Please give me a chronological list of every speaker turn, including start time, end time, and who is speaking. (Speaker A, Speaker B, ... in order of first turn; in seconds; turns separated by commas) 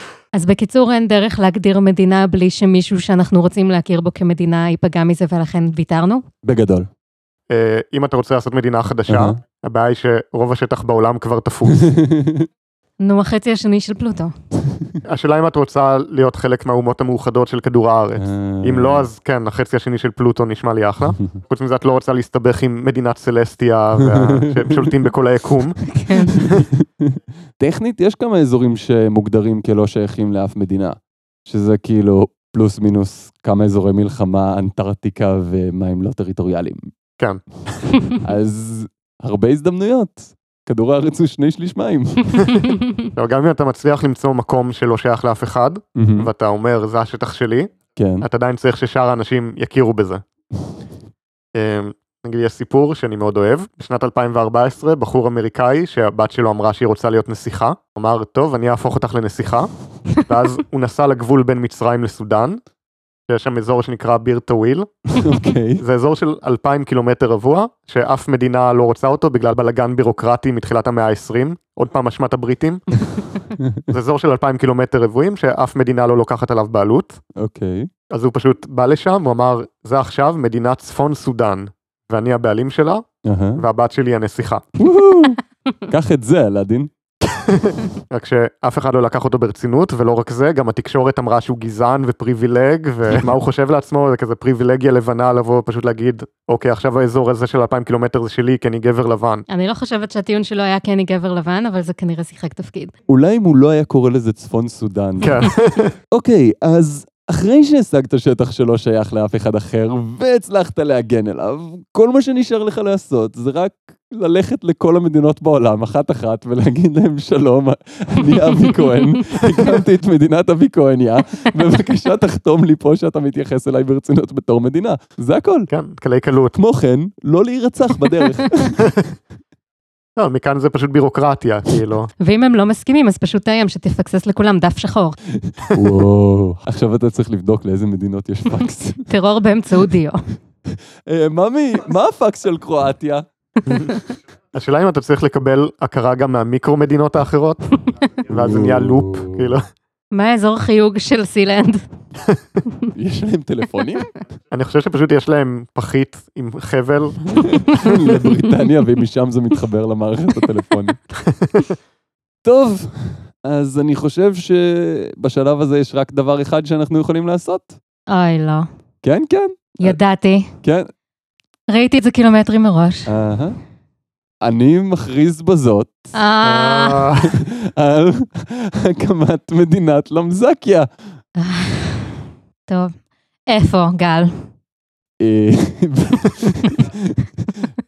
Speaker A: 0.3-6.2, Speaker B: 6.4-6.9, Speaker C: 7.5-11.9, Speaker B: 9.1-9.4, Speaker B: 11.7-12.5, Speaker A: 13.0-14.3, Speaker C: 15.1-25.8, Speaker B: 18.2-19.1, Speaker B: 24.0-24.9, Speaker A: 25.9-26.4, Speaker B: 26.3-36.9, Speaker C: 26.4-26.7, Speaker B: 38.2-42.6, Speaker A: 42.5-43.0, Speaker C: 43.1-50.2, Speaker B: 46.0-46.3, Speaker B: 48.0-48.3, Speaker C: 51.5-62.6, Speaker C: 63.3-65.2, Speaker B: 65.2-65.8, Speaker C: 65.8-72.9, Speaker B: 73.6-73.8, Speaker C: 73.9-77.2, Speaker B: 77.4-77.9, Speaker C: 78.1-84.6, Speaker B: 83.2-83.6, Speaker B: 84.8-86.9, Speaker C: 87.2-99.5, Speaker A: 99.5-102.9, Speaker B: 103.1-105.5, Speaker C: 105.2-105.9, Speaker B: 106.1-125.7, Speaker A: 118.6-119.0, Speaker C: 125.7-126.6, Speaker B: 126.5-129.0, Speaker C: 130.2-132.1, Speaker A: 132.2-135.2, Speaker B: 135.3-139.1, Speaker A: 139.1-140.2, Speaker B: 140.7-143.2, Speaker A: 143.7-144.0, Speaker C: 144.5-147.7, Speaker C: 148.2-149.6, Speaker B: 148.3-149.5, Speaker A: 150.1-151.8, Speaker B: 152.9-154.1, Speaker C: 154.5-157.4, Speaker B: 157.3-161.0, Speaker A: 157.8-158.2, Speaker C: 161.2-161.8, Speaker B: 162.4-167.8, Speaker A: 168.1-168.7, Speaker B: 169.0-170.0, Speaker A: 169.8-170.5, Speaker B: 170.6-170.9, Speaker A: 171.7-173.1, Speaker B: 173.1-173.6, Speaker B: 174.4-176.1, Speaker A: 176.1-177.1, Speaker C: 176.4-177.4, Speaker B: 177.2-180.9, Speaker A: 181.4-182.9, Speaker A: 183.5-184.3, Speaker B: 185.2-187.7